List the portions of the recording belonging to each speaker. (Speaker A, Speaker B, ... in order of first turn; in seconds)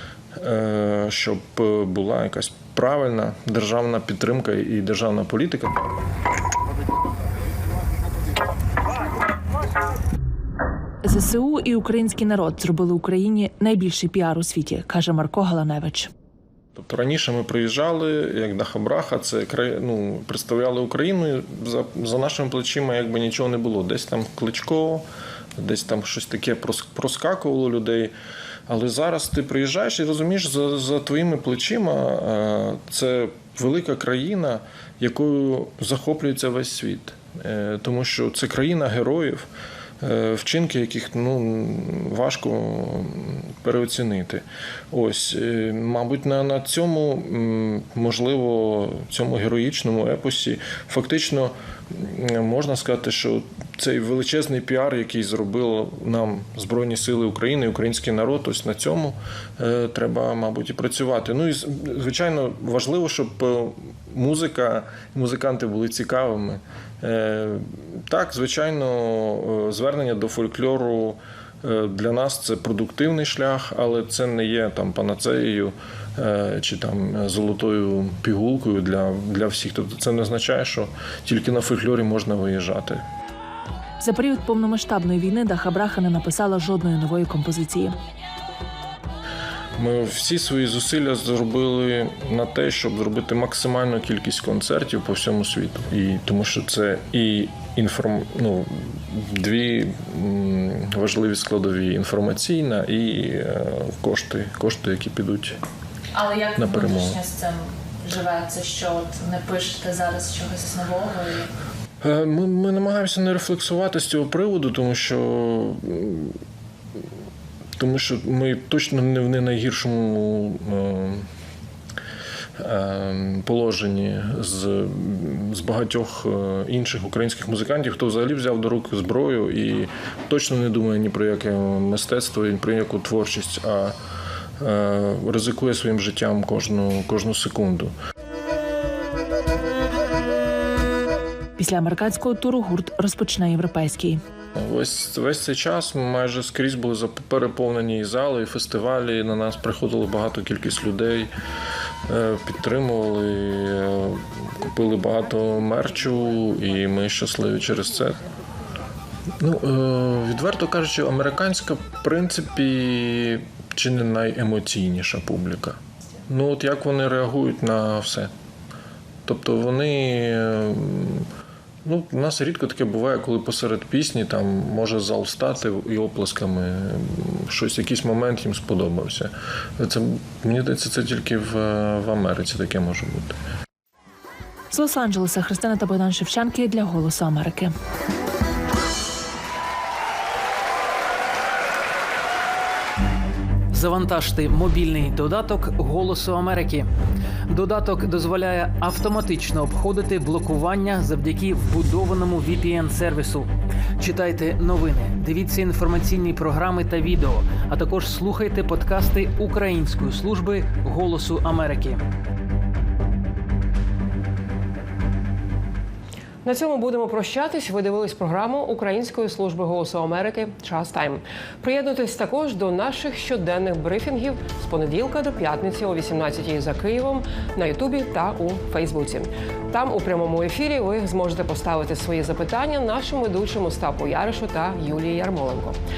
Speaker A: 0.3-5.9, 16.7-25.1, 25.6-28.1, 28.7-39.5, 40.0-83.0, 89.8-105.6, 106.5-107.2, 112.0-116.4, 117.8-121.3, 122.6-133.9, 134.6-137.9, 144.6-151.3, 152.1-158.2, 159.4-168.3, 169.2-171.3, 171.8-183.4
Speaker B: 11.0-16.1, 84.0-88.0, 141.6-144.2, 184.7-187.7
Speaker C: 106.2-111.5
Speaker D: 193.7-196.9, 197.5-212.0
Speaker E: 216.4-235.8